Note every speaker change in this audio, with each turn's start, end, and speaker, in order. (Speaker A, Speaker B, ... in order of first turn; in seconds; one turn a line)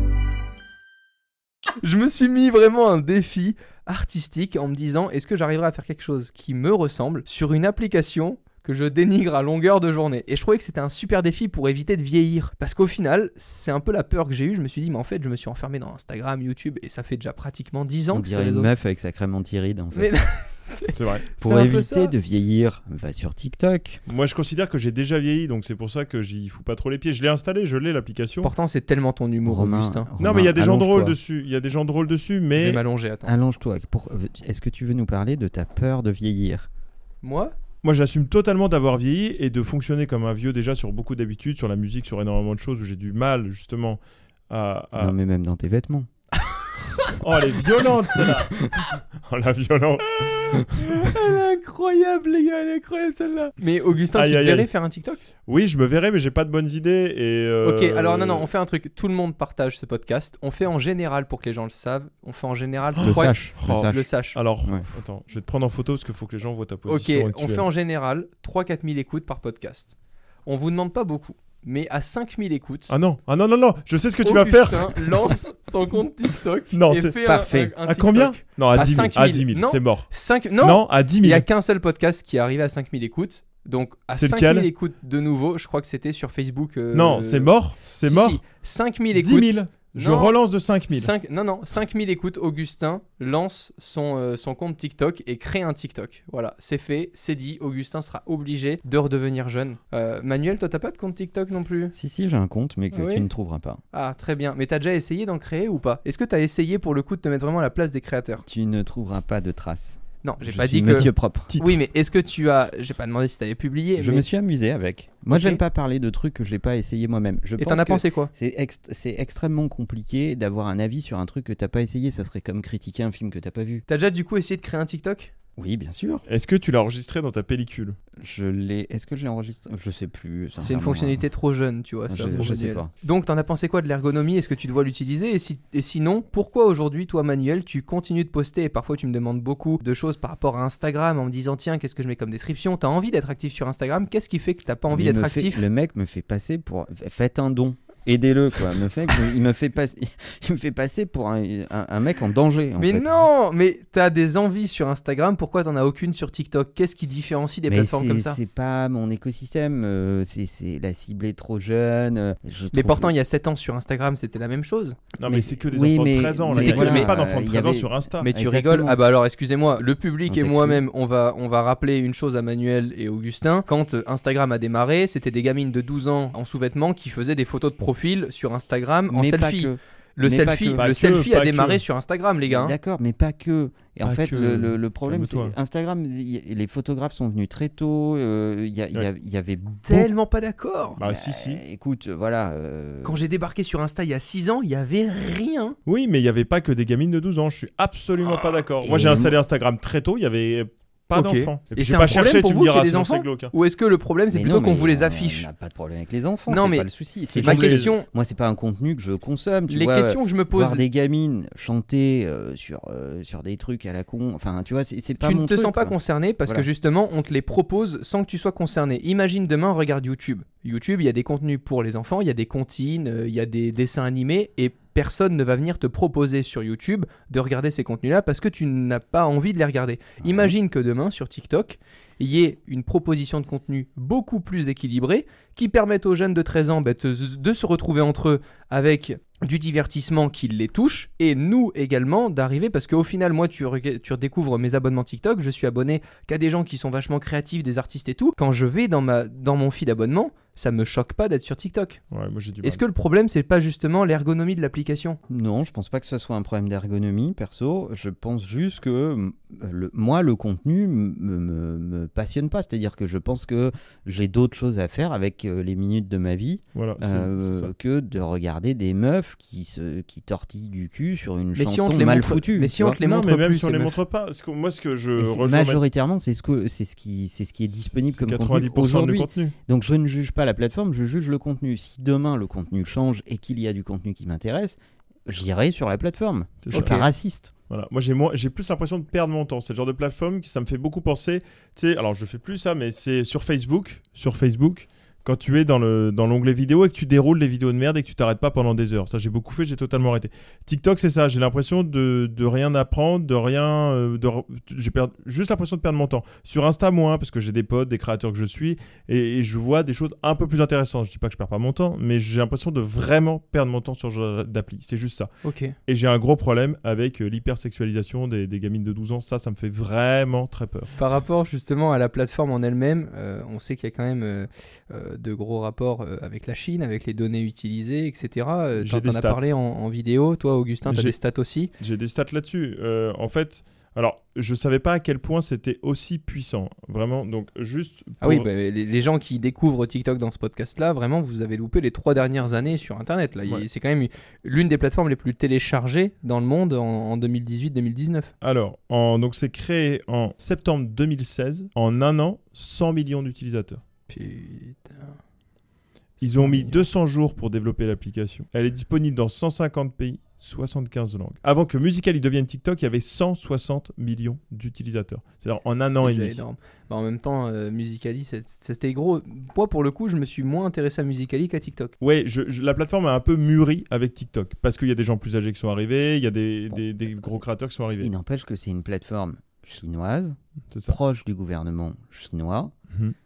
Speaker A: 1.8-18.7
Speaker B: 18.1-20.1
Speaker A: 19.9-22.1
Speaker C: 20.9-21.3
Speaker B: 21.4-24.0
Speaker C: 24.1-28.5
Speaker A: 28.4-30.1
Speaker B: 29.4-31.2
Speaker C: 30.2-32.8
Speaker A: 32.5-33.3
Speaker B: 33.2-36.7
Speaker A: 37.2-37.5
Speaker C: 37.8-45.1
Speaker B: 45.0-46.1
Speaker C: 47.2-51.1
Speaker A: 50.8-55.2
Speaker C: 54.1-54.7
Speaker C: 55.5-58.5
Speaker A: 57.6-64.4
Speaker C: 63.0-67.7
Speaker B: 63.0-64.0
Speaker A: 66.9-69.9
Speaker A: 70.5-72.9
Speaker C: 72.9-75.4
Speaker A: 74.2-90.3
Speaker C: 76.7-81.5
Speaker B: 77.2-77.7
Speaker C: 84.1-84.7
Speaker C: 86.9-88.4
Speaker C: 89.1-91.1
Speaker A: 90.9-101.9
Speaker B: 101.9-103.8
Speaker A: 102.9-103.2
Speaker A: 103.9-108.4
Speaker B: 108.4-111.6
Speaker A: 110.2-114.3
Speaker B: 114.0-123.8
Speaker A: 115.3-115.6
Speaker A: 117.6-118.3
Speaker A: 123.9-125.3
Speaker B: 125.6-126.2
Speaker C: 126.3-128.0
Speaker B: 128.2-131.2
Speaker A: 130.6-145.7
Speaker B: 132.1-132.9
Speaker B: 144.9-153.2
Speaker A: 152.8-158.4
Speaker B: 157.7-163.1
Speaker A: 162.7-165.0
Speaker C: 165.2-168.3
Speaker B: 165.2-169.0
Speaker A: 166.5-167.2
Speaker A: 168.2-182.8
Speaker B: 170.3-170.8
Speaker B: 179.1-180.8
Speaker C: 180.7-181.8
Speaker B: 182.5-190.1
Speaker C: 184.0-185.5
Speaker A: 189.9-191.0
Speaker C: 191.0-191.6
Speaker B: 191.0-193.3
Speaker A: 193.0-195.8
Speaker C: 195.8-203.5
Speaker B: 198.8-199.3
Speaker A: 201.1-205.5
Speaker B: 204.3-216.7
Speaker A: 206.5-206.9
Speaker C: 207.3-207.9
Speaker A: 207.4-208.1
Speaker A: 209.7-210.8
Speaker A: 215.2-252.0
Speaker B: 230.2-230.5
Speaker C: 252.1-252.8
Speaker A: 252.6-255.2
Speaker B: 255.3-273.0
Speaker C: 266.7-267.7
Speaker A: 271.6-274.0
Speaker C: 272.9-275.8
Speaker B: 275.2-287.5
Speaker C: 277.9-279.6
Speaker C: 286.6-287.1
Speaker A: 286.7-287.1
Speaker C: 287.7-315.3
Speaker A: 315.4-315.8
Speaker C: 315.9-321.0
Speaker A: 321.0-331.7
Speaker C: 328.8-329.5
Speaker C: 330.9-331.2
Speaker C: 331.8-338.5
Speaker A: 338.2-348.3
Speaker C: 348.4-353.8
Speaker A: 354.1-355.2
Speaker A: 356.2-356.9
Speaker C: 356.2-366.4
Speaker A: 365.9-371.9
Speaker C: 372.0-378.1
Speaker B: 376.7-377.4
Speaker B: 378.0-382.7
Speaker C: 380.7-381.0